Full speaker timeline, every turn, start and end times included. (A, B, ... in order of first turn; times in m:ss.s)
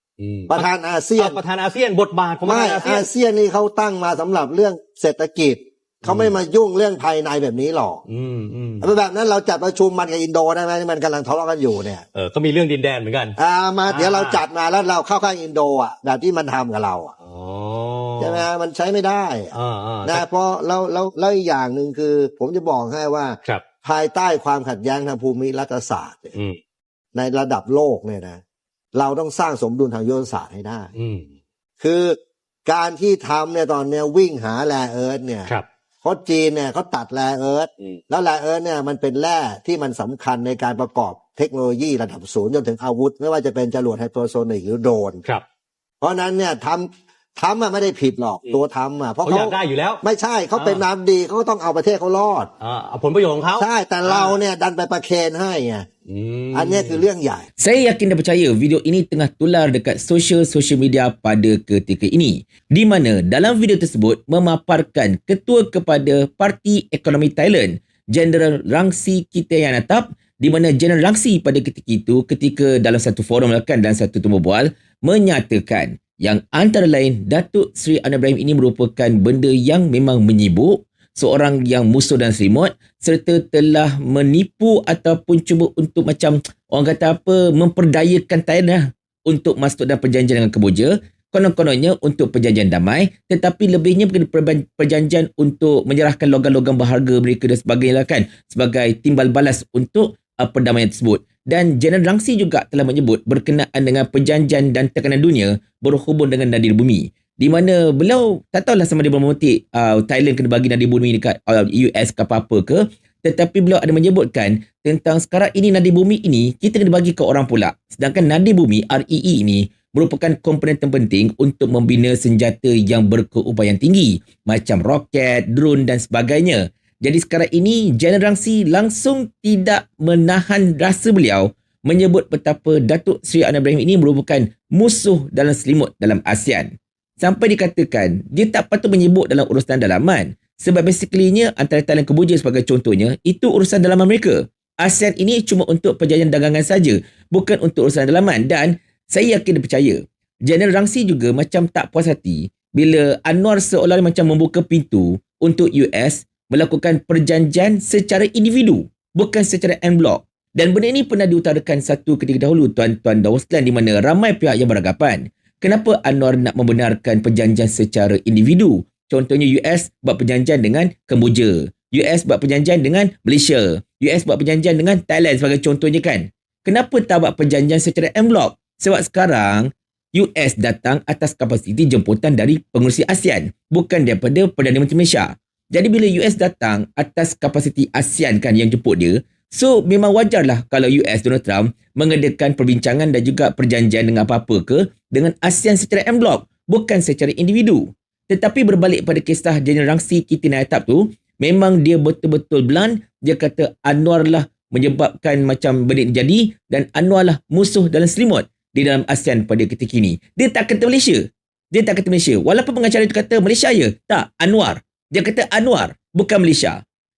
0:00.2-0:03.1 A
0:00.5-0:01.4 B
0:02.4-0:08.0 B
0:06.0-0:06.4 A
0:08.1-0:08.9 A
0:08.8-0:12.0 B
0:12.1-0:13.3 A
0:13.4-0:17.1 B
0:13.9-0:14.4 A
0:17.2-0:18.4 A
0:18.2-0:26.4 B
0:19.5-0:20.2 A
0:27.1-0:28.4 B
0:28.9-0:30.9 B
0:30.9-0:31.2 A
0:31.8-0:45.2 B
0:46.0-0:52.5 B
0:49.2-0:50.0 A
0:50.5-0:50.8 A
0:52.6-0:54.3 A
0:53.6-0:55.8 B
0:56.1-0:57.0 A
0:56.5-0:57.4 B
0:57.6-3:36.8 C